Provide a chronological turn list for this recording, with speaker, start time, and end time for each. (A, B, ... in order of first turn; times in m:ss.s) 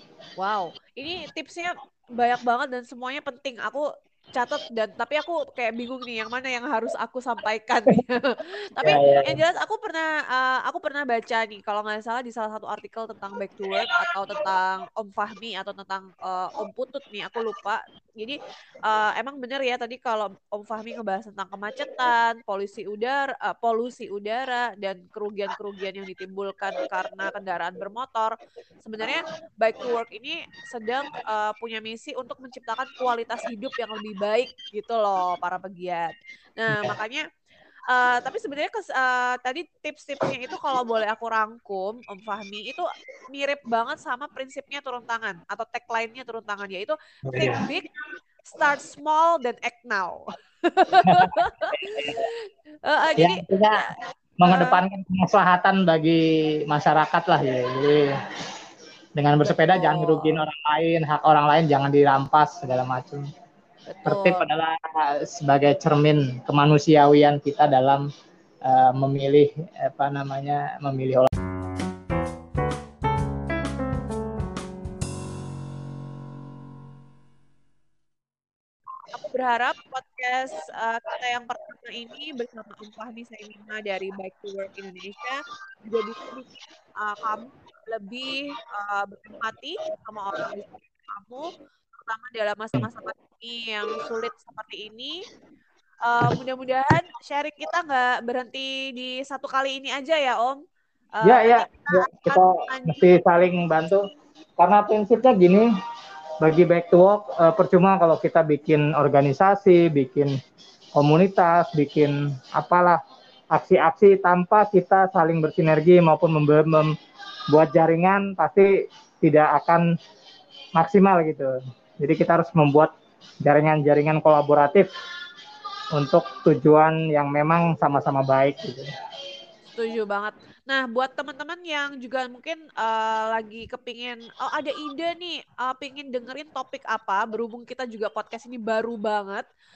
0:00.4-0:28.3 A
0:08.8-0:09.4 B
0:28.8-0:37.2 A
0:37.9-0:47.9 A
0:47.3-0:47.6 B
0:48.4-0:54.8 A
0:51.0-0:52.3 B
0:53.2-0:53.9 B
0:54.4-0:58.2 B
0:59.2-1:03.3 B
0:59.4-1:00.4 A
1:03.9-1:04.5 A
1:04.1-1:08.1 B
1:08.6-1:11.3 B
1:19.2-1:35.2 A
1:36.1-1:40.6 A
1:41.2-1:43.0 A
1:41.2-1:44.0 B
1:44.6-1:45.7 B
1:46.4-1:50.4 B
1:51.0-1:53.0 B
1:53.5-1:57.0 B
1:57.5-1:59.9 B
2:00.8-2:02.9 B
2:03.4-2:04.9 B
2:05.9-2:08.9 B
2:09.7-2:19.4 A